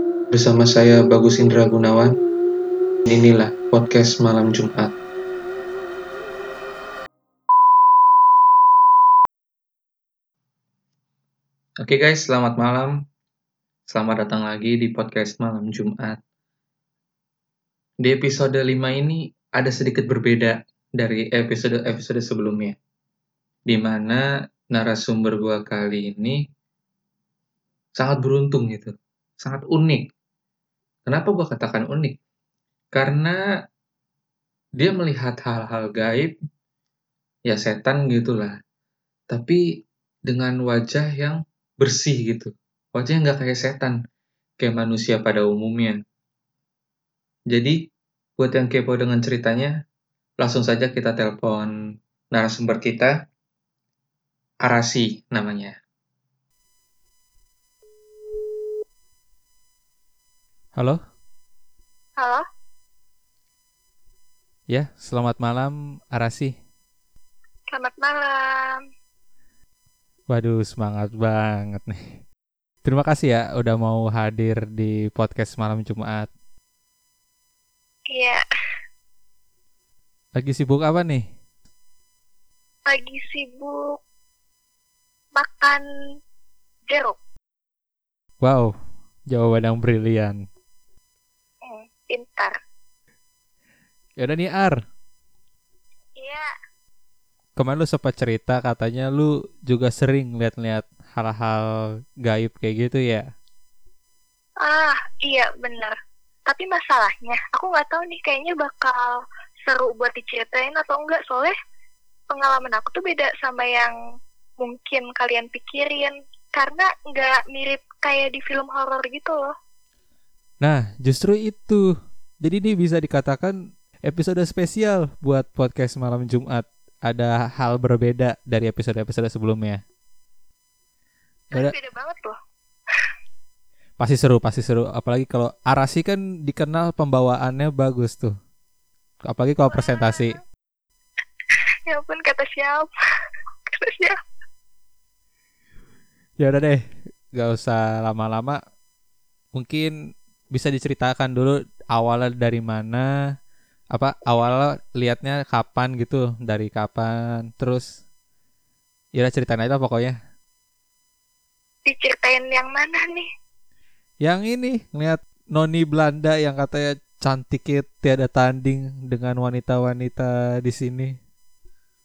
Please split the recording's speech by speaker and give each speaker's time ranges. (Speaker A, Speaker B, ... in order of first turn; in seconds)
Speaker A: 0.3-2.1, 3.1-4.9, 11.8-13.0, 13.9-16.2, 18.0-22.8, 23.7-26.4, 28.0-30.1, 31.1-32.2, 32.9-33.4, 34.8-36.4, 37.5-38.5, 39.3-39.6, 40.3-44.0, 44.6-46.0, 47.5-47.8, 48.4-49.7, 50.4-51.7, 52.3-53.1, 54.6-55.8
Speaker B: 62.2-62.4, 67.7-68.8, 78.1-78.4, 82.9-83.8, 85.4-85.8, 86.9-87.2, 91.6-92.5, 96.2-96.5, 104.6-105.9, 106.5-109.0, 109.7-111.5, 112.3-113.9, 114.6-119.5, 131.5-132.3, 139.7-140.4, 141.9-142.9, 143.7-144.2, 161.9-163.3
Speaker C: 64.7-66.5, 70.3-72.0, 72.8-76.3, 80.3-81.2, 88.4-88.7, 89.3-90.4, 94.2-94.8, 97.6-103.3, 120.6-121.8, 122.4-123.5, 124.0-129.8, 134.0-138.3, 139.3-140.4, 146.4-146.8, 147.3-148.6, 149.5-149.9, 150.5-153.1, 153.9-157.8, 159.2-160.1, 164.2-171.1